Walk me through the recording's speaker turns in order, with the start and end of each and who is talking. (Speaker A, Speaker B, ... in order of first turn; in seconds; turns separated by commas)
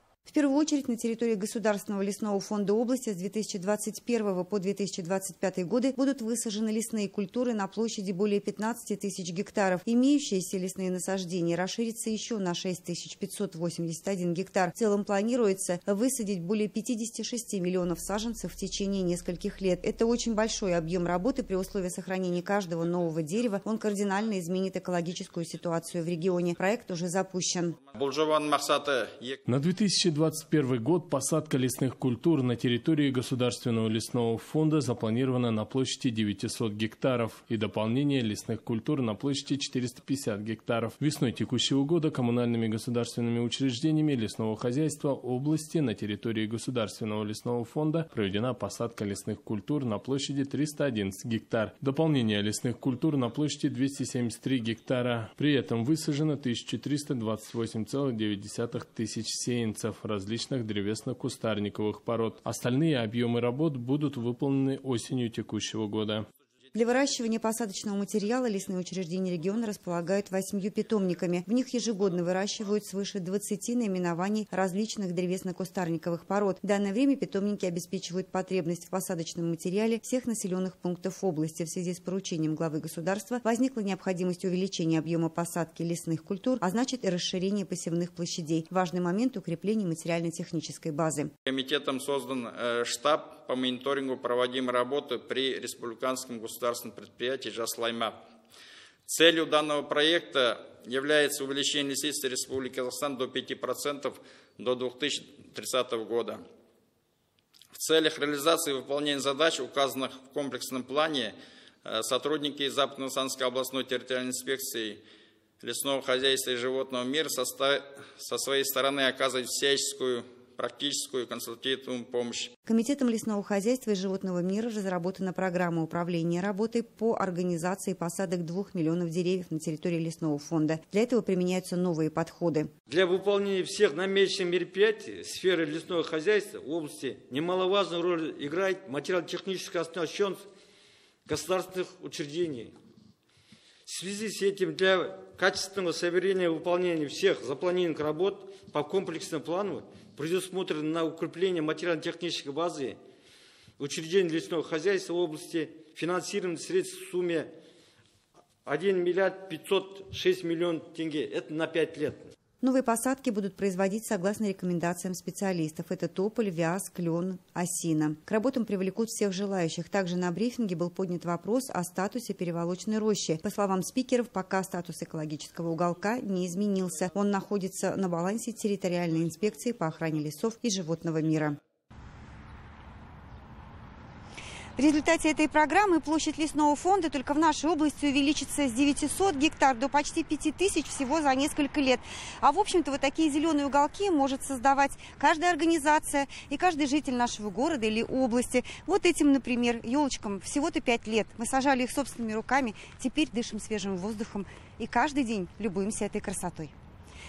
Speaker A: 0.2-27.8, Speaker B: 27.9-29.4, Speaker C: 29.5-66.3, Speaker A: 66.7-91.3, Speaker B: 91.5-98.1, Speaker B: 99.0-106.4, Speaker B: 107.7-115.0, Speaker B: 115.6-122.5, Speaker A: 122.7-132.7, Speaker D: 132.9-140.4, Speaker D: 141.2-142.8, Speaker D: 143.8-153.0, Speaker D: 153.8-157.5, Speaker D: 158.6-162.3, Speaker A: 162.6-181.6, Speaker A: 184.8-206.7